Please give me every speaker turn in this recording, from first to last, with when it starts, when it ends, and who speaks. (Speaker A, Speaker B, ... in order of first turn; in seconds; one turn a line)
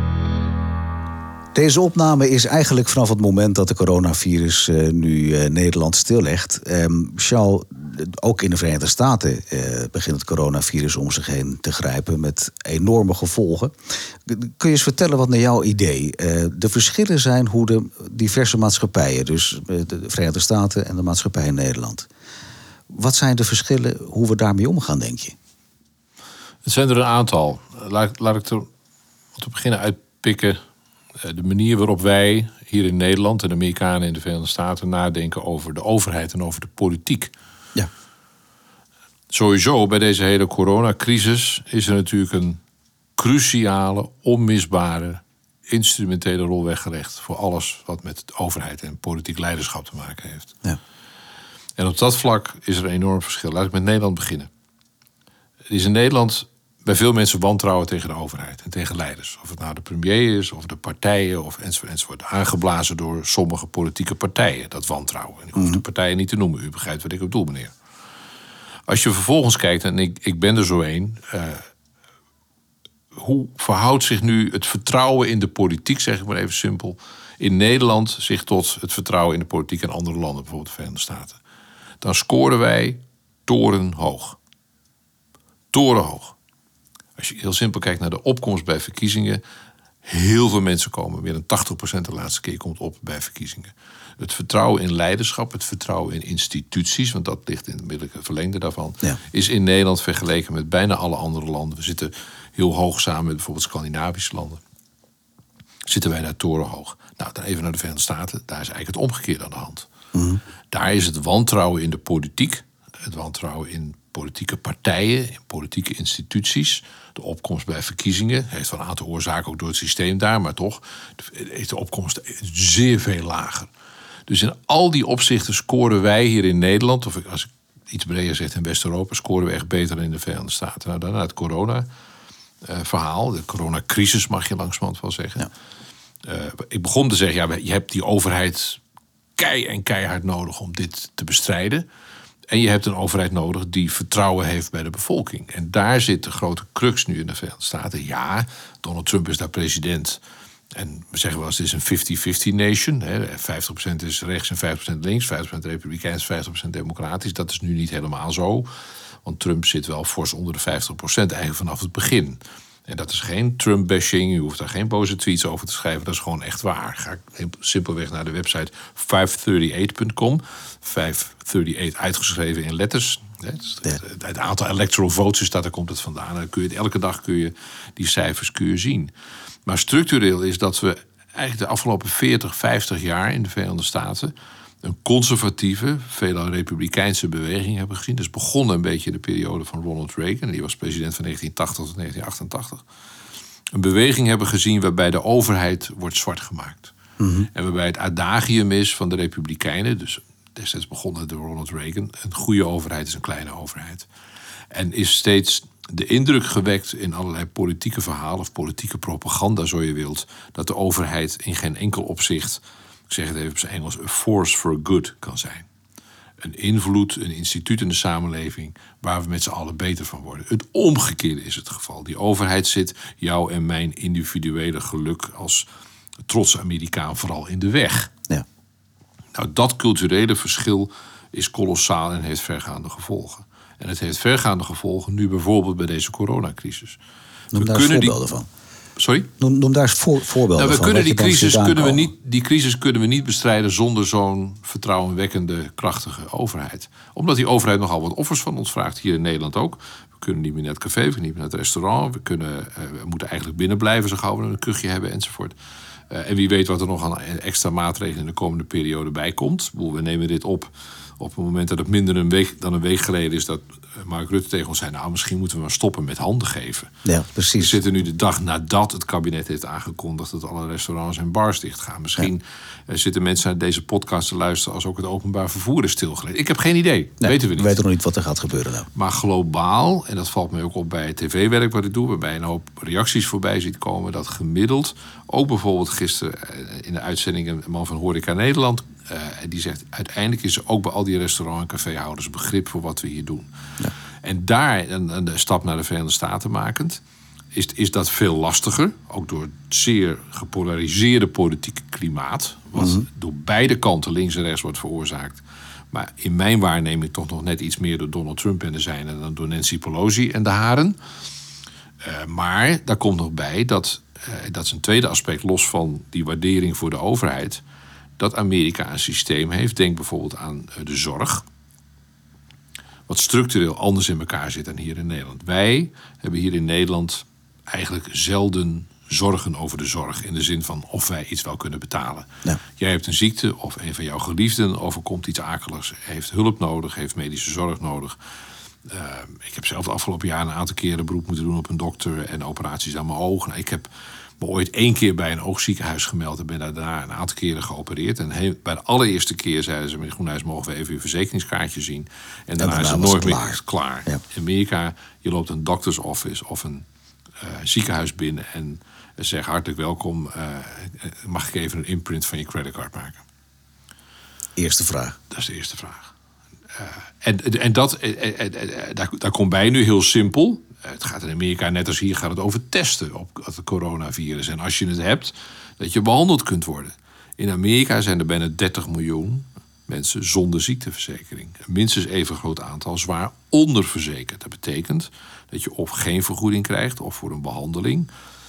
Speaker A: 1.5-13.7
Speaker A: 14.3-22.1
Speaker A: 22.9-25.3
Speaker B: 26.6-28.7
Speaker B: 29.3-30.6
Speaker B: 31.2-37.3
Speaker B: 39.3-42.6
Speaker B: 43.2-50.5
Speaker B: 51.8-54.5
Speaker B: 55.7-67.7
Speaker A: 65.5-65.8
Speaker B: 68.9-71.7
Speaker B: 73.1-81.4
Speaker B: 82.0-84.4
Speaker B: 85.7-86.3
Speaker B: 87.2-89.4
Speaker B: 90.0-104.6
Speaker B: 105.8-109.9
Speaker A: 110.1-110.4
Speaker B: 110.7-123.7
Speaker B: 124.3-131.9
Speaker B: 132.6-135.5
Speaker B: 136.2-138.8
Speaker B: 139.4-141.9
Speaker B: 142.5-150.2
Speaker B: 150.7-158.7
Speaker B: 159.2-179.1
Speaker B: 179.7-192.8
Speaker B: 193.7-196.9
Speaker A: 197.2-197.5
Speaker B: 197.5-204.1
Speaker B: 204.7-215.7
Speaker B: 216.4-225.7
Speaker B: 226.3-228.1
Speaker B: 229.3-237.0
Speaker B: 237.5-238.2
Speaker A: 237.5-238.5
Speaker B: 239.0-239.3
Speaker A: 239.4-242.1
Speaker B: 240.5-255.6
Speaker B: 256.1-266.9
Speaker A: 267.0-267.8
Speaker B: 267.5-277.8
Speaker A: 277.2-278.9
Speaker B: 278.9-293.5
Speaker B: 294.2-297.0
Speaker B: 297.5-311.0
Speaker A: 302.8-303.0
Speaker B: 312.0-317.6
Speaker B: 318.2-321.4
Speaker B: 323.1-338.2
Speaker B: 338.9-356.8
Speaker A: 352.6-354.2
Speaker B: 357.4-363.2
Speaker A: 364.6-365.1
Speaker B: 365.3-366.1
Speaker B: 366.7-388.1